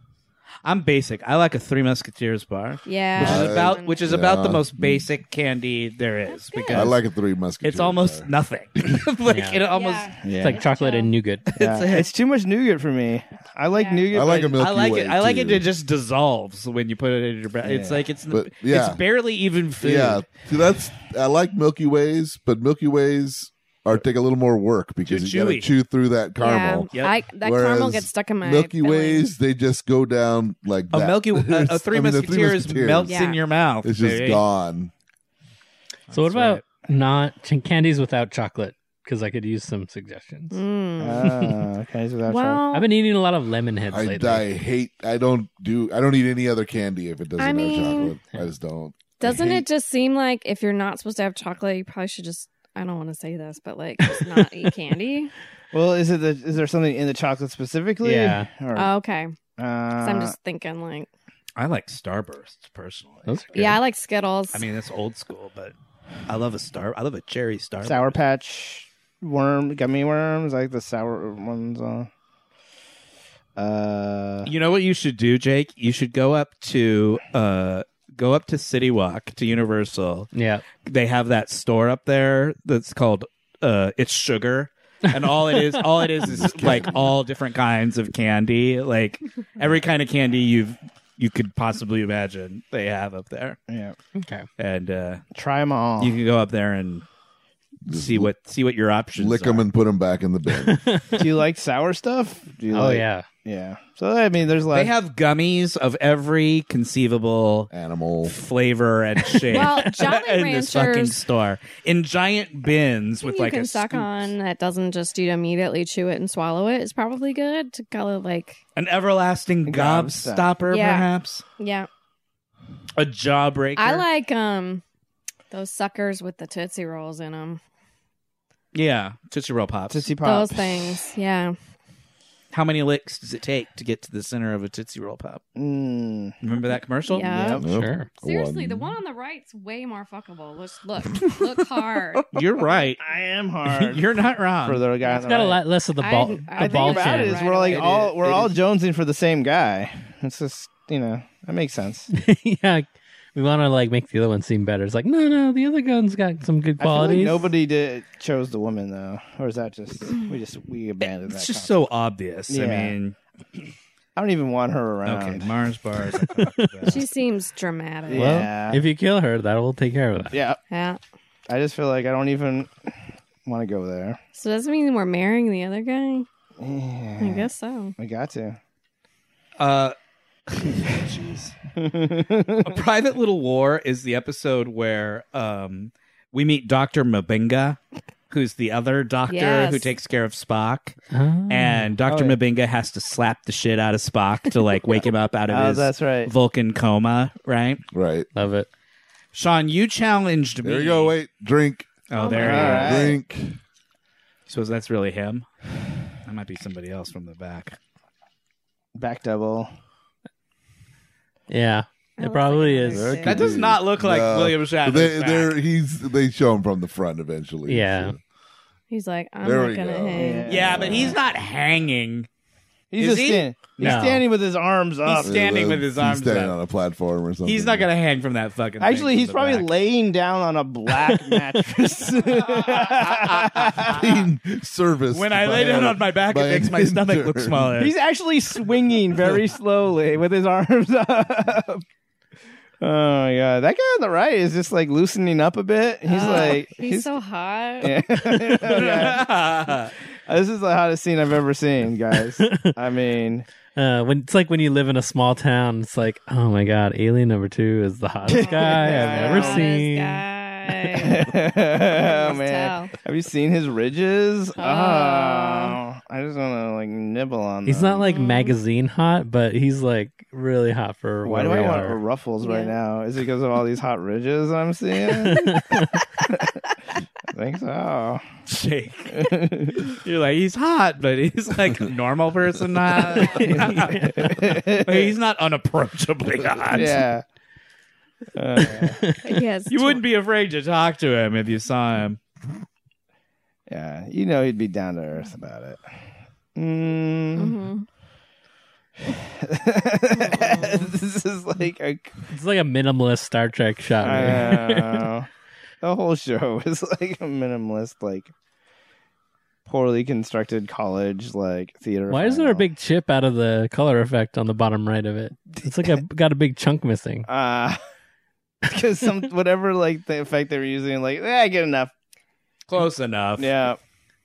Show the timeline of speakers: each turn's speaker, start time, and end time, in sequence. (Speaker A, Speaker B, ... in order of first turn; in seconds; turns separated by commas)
Speaker A: 0.6-7.0, Speaker B: 2.8-4.0, Speaker C: 3.2-5.1, Speaker B: 6.3-6.9, Speaker C: 6.7-8.3, Speaker A: 7.6-10.1, Speaker D: 9.2-9.6, Speaker B: 9.7-11.1, Speaker E: 10.2-10.6, Speaker D: 10.3-11.5, Speaker A: 11.5-12.1, Speaker E: 11.6-14.6, Speaker B: 13.7-14.1, Speaker C: 14.1-15.7, Speaker A: 14.5-20.2, Speaker E: 17.6-18.0, Speaker C: 18.3-19.0, Speaker C: 19.8-33.1, Speaker A: 25.1-25.7, Speaker B: 26.4-29.3, Speaker A: 30.9-34.4, Speaker B: 33.0-33.4, Speaker C: 33.8-34.9, Speaker A: 36.1-36.6, Speaker D: 36.1-40.6, Speaker B: 40.5-41.4, Speaker E: 41.0-42.6, Speaker D: 41.3-41.6, Speaker B: 42.3-42.9, Speaker D: 42.7-44.5, Speaker C: 43.9-49.6, Speaker B: 47.4-48.1, Speaker B: 49.2-55.3, Speaker E: 55.7-58.9, Speaker D: 58.0-58.5, Speaker B: 58.7-59.3, Speaker E: 59.6-60.3, Speaker B: 60.0-61.1, Speaker A: 61.5-63.5, Speaker D: 63.2-63.8, Speaker B: 63.5-64.7, Speaker A: 64.5-65.7, Speaker A: 66.3-68.2, Speaker E: 67.8-72.1, Speaker E: 73.5-74.5, Speaker A: 74.4-80.3, Speaker D: 80.3-80.6, Speaker A: 80.8-93.6, Speaker C: 86.3-87.0, Speaker E: 93.7-94.0, Speaker D: 94.1-94.5, Speaker A: 94.6-95.2, Speaker E: 95.3-96.2, Speaker A: 96.0-97.0, Speaker C: 97.8-98.3, Speaker A: 97.9-99.7, Speaker C: 99.2-100.8, Speaker D: 100.6-101.3, Speaker E: 101.2-104.9, Speaker D: 102.7-103.3, Speaker A: 104.7-107.7, Speaker C: 107.7-108.3, Speaker A: 108.2-114.3, Speaker B: 109.5-111.2, Speaker B: 113.2-118.6, Speaker A: 118.8-121.4, Speaker E: 119.7-120.5, Speaker B: 120.7-121.9, Speaker A: 123.0-124.0, Speaker B: 123.8-124.8, Speaker B: 125.5-127.6, Speaker A: 128.7-130.1, Speaker E: 129.9-131.0, Speaker B: 130.2-131.6, Speaker A: 132.5-135.4, Speaker E: 135.6-136.4, Speaker A: 136.4-137.3, Speaker B: 137.1-137.6, Speaker E: 137.2-137.7, Speaker C: 137.6-139.0, Speaker D: 137.6-138.1, Speaker B: 138.2-142.4, Speaker A: 142.3-143.0, Speaker E: 143.0-144.0, Speaker A: 143.7-144.8, Speaker E: 144.6-145.6, Speaker D: 145.1-147.5, Speaker B: 146.0-147.9, Speaker E: 146.6-152.1, Speaker A: 147.7-148.6, Speaker D: 152.1-157.5, Speaker E: 156.8-161.7, Speaker A: 161.2-163.1, Speaker E: 162.5-162.9, Speaker E: 164.2-165.5, Speaker A: 165.0-167.1, Speaker D: 166.3-166.9, Speaker B: 166.8-168.5, Speaker E: 168.1-168.8, Speaker D: 168.1-170.3, Speaker E: 170.3-170.6, Speaker B: 170.7-171.0, Speaker E: 171.5-172.9, Speaker E: 173.4-174.2, Speaker B: 174.3-176.3, Speaker E: 176.6-178.6, Speaker B: 177.2-177.9, Speaker A: 179.6-179.9, Speaker A: 180.5-181.5, Speaker E: 181.8-182.7, Speaker A: 182.6-187.8, Speaker A: 188.3-191.0, Speaker B: 189.3-189.9, Speaker D: 191.1-191.9, Speaker A: 191.5-197.8, Speaker E: 192.1-192.4, Speaker E: 195.5-196.3, Speaker C: 197.9-198.3, Speaker D: 198.3-198.7, Speaker A: 199.3-201.1, Speaker C: 200.6-203.6, Speaker A: 202.1-203.1, Speaker B: 202.1-203.0, Speaker E: 202.4-203.1, Speaker A: 204.5-205.5, Speaker A: 206.2-207.8, Speaker E: 208.9-209.7, Speaker D: 211.5-213.5, Speaker B: 212.2-213.4, Speaker C: 212.9-218.2, Speaker A: 213.2-215.5, Speaker D: 217.7-218.1, Speaker B: 218.9-221.1, Speaker C: 219.4-221.2, Speaker E: 220.1-221.1, Speaker A: 220.5-222.3, Speaker E: 222.9-225.3, Speaker A: 222.9-224.0, Speaker D: 223.8-224.2, Speaker A: 225.1-226.6, Speaker C: 225.2-227.9, Speaker A: 227.4-229.7, Speaker E: 228.8-234.1, Speaker A: 232.4-234.1, Speaker C: 233.8-237.7, Speaker A: 235.1-237.9, Speaker E: 237.8-241.8, Speaker E: 242.8-247.1, Speaker B: 246.1-248.0, Speaker E: 247.8-249.3, Speaker A: 248.3-249.9, Speaker E: 250.3-253.5, Speaker D: 252.4-252.7, Speaker D: 253.7-260.2, Speaker B: 258.2-262.9, Speaker E: 258.3-259.7, Speaker E: 260.9-268.1, Speaker B: 264.6-265.8, Speaker D: 267.6-272.0, Speaker B: 268.0-268.6, Speaker E: 271.2-276.6, Speaker B: 272.4-272.7, Speaker D: 275.2-276.0, Speaker E: 277.3-278.2, Speaker A: 278.5-287.0, Speaker E: 279.1-279.8, Speaker D: 283.1-284.3, Speaker E: 283.5-285.1, Speaker E: 286.7-287.2, Speaker E: 288.3-289.0, Speaker D: 288.7-289.3, Speaker B: 289.2-290.0, Speaker A: 289.7-292.2, Speaker E: 293.7-295.8, Speaker E: 296.5-297.6, Speaker B: 297.4-297.9, Speaker E: 299.0-302.2, Speaker B: 300.1-300.9, Speaker D: 302.3-305.1, Speaker E: 304.0-305.3, Speaker E: 305.8-308.3, Speaker E: 309.6-312.7, Speaker D: 312.1-317.3, Speaker E: 317.3-317.8, Speaker E: 318.6-321.9, Speaker A: 322.7-323.5, Speaker E: 323.4-323.8